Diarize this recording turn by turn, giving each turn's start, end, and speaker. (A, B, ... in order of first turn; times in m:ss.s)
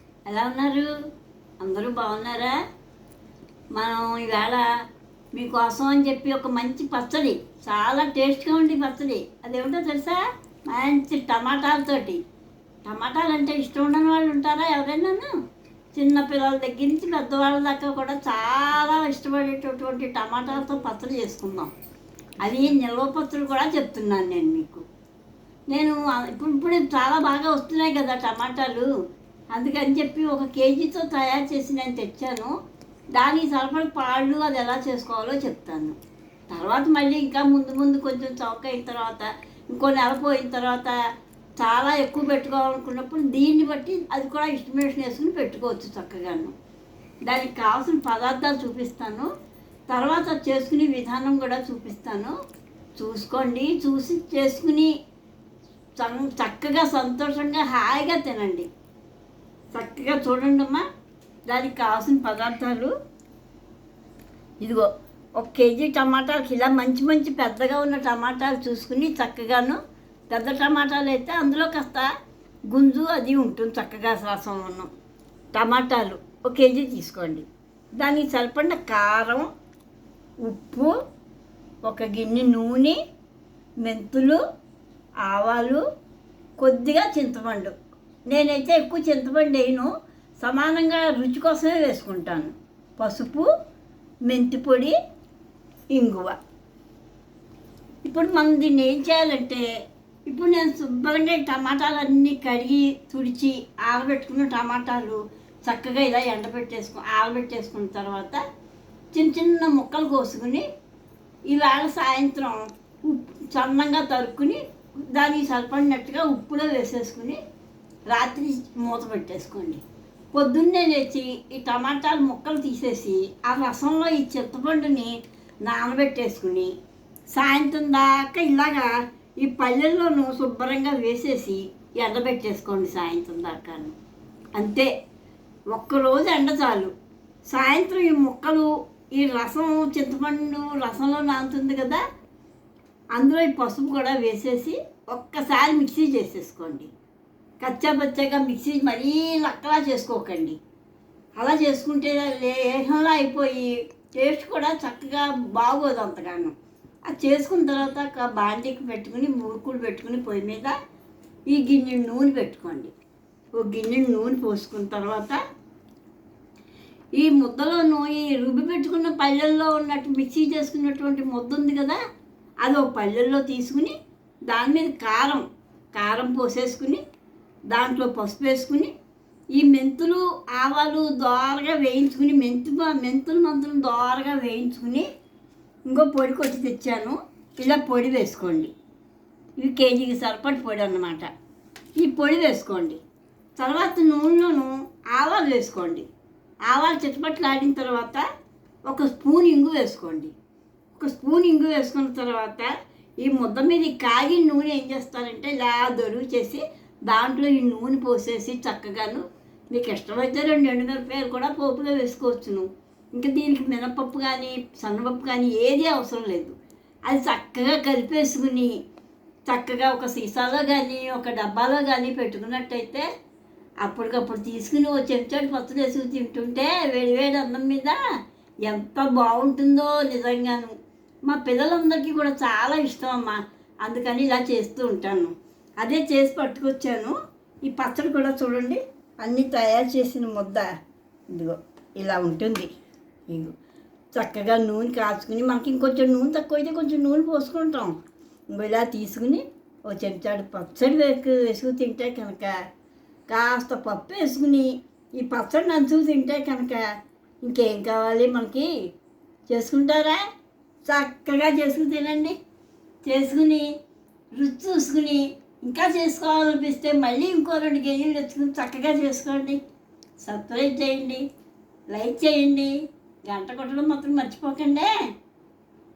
0:00.3-0:00.9 A
0:01.6-0:02.6 A
0:03.8-0:04.6 A
0:05.3-0:12.2 A
0:12.8-0:15.3 A
0:15.9-0:21.7 A
0:22.4-0:24.8 A
0:25.7-0:28.9 A
0:29.5-0:32.5 A
0:33.2-0:36.0 A
0:36.5-0:41.0 A
0:41.6-0:46.5 A
0:47.2-0:49.3 A
0:49.9-0:52.3 A
0:53.0-0:54.9 A
0:56.0-0:58.7 A
0:59.7-1:00.9 A
1:01.5-1:02.9 A
1:04.6-1:09.8 A
1:10.3-1:12.1 A
1:12.7-1:14.9 A
1:15.5-1:19.5 A
1:20.4-1:20.9 A
1:21.8-1:23.0 A
1:23.8-1:24.4 A
1:25.2-1:25.8 A
1:26.6-1:27.7 A
1:28.3-1:33.5 A
1:34.2-1:35.0 A
1:35.9-1:36.4 A
1:38.0-1:39.7 A
1:40.3-1:48.4 A
1:49.1-1:50.7 A
1:51.5-1:54.6 A
1:55.1-1:57.4 A
1:58.1-1:59.8 A
2:00.3-2:06.7 A
2:07.3-2:13.9 A
2:14.6-2:14.9 A
2:15.7-2:16.9 A
2:17.5-2:22.0 A
2:23.2-2:26.9 A
2:27.6-2:30.6 A
2:31.4-2:36.5 A
2:37.1-2:40.8 A
2:41.5-2:42.9 A
2:43.6-2:45.4 A
2:47.2-2:52.0 A
2:52.6-2:54.0 A
2:54.5-2:55.4 A
2:56.0-2:57.0 A
2:57.7-2:58.9 A
2:59.5-3:05.1 A
3:05.9-3:08.7 A
3:09.6-3:11.3 A
3:12.0-3:13.0 A
3:13.6-3:16.1 A
3:16.7-3:18.2 A
3:18.9-3:20.3 A
3:21.0-3:36.6 A
3:37.1-3:38.7 A
3:39.4-3:43.1 A
3:43.8-3:48.0 A
3:48.6-3:50.8 A
3:51.3-4:00.7 A
4:01.3-4:02.7 A
4:03.3-4:03.5 A
4:04.2-4:08.0 A
4:08.5-4:12.6 A
4:13.3-4:16.9 A
4:17.4-4:18.7 A
4:19.5-4:20.2 A
4:20.8-4:22.4 A
4:23.0-4:23.7 A
4:24.4-4:29.6 A
4:30.2-4:31.2 A
4:31.9-4:32.7 A
4:33.3-4:34.9 A